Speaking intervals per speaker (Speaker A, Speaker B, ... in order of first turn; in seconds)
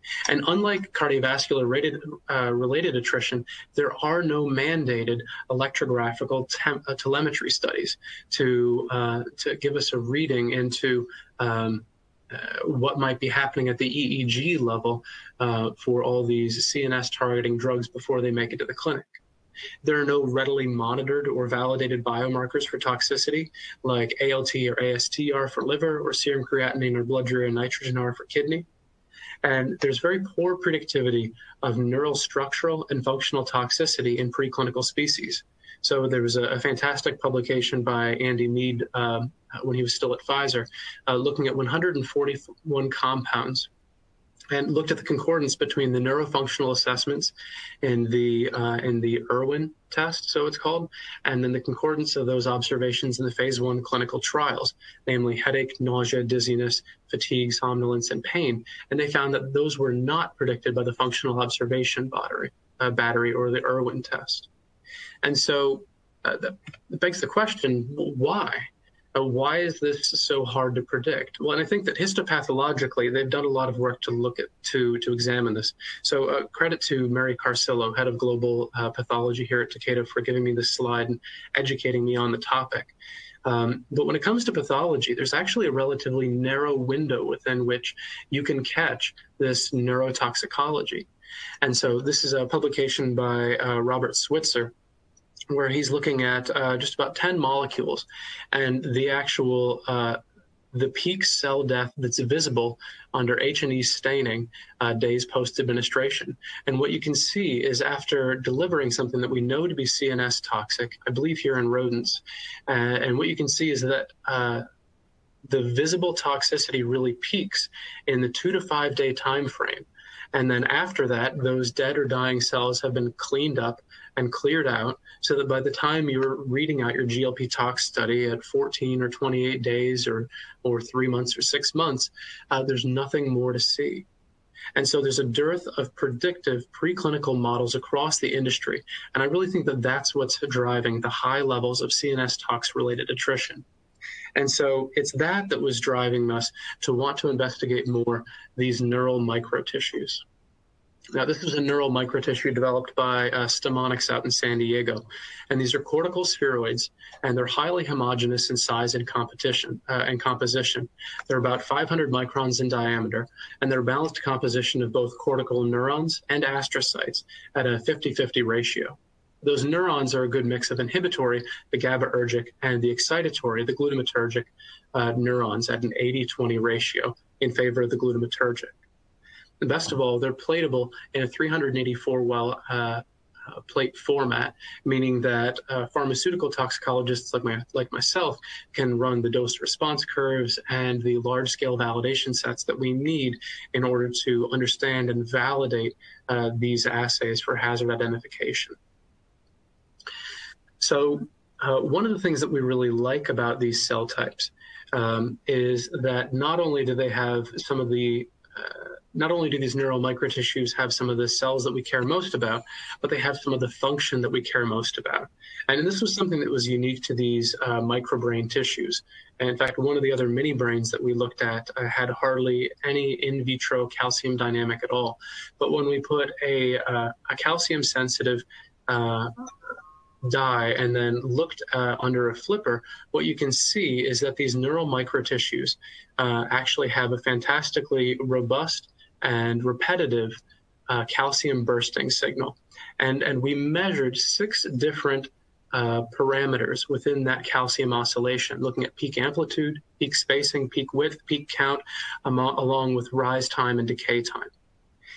Speaker A: 0.3-19.1, 19.8-28.7, 29.4-43.7, 44.5-64.5, 65.2-82.9, 83.4-91.1, 91.6-94.7, 95.5-100.2, 100.7-114.6, 115.5-134.1, 134.7-143.6, 144.4-150.2, 151.1-178.8, 179.6-198.8, 200.8-229.5, 230.2-240.4, 240.9-254.5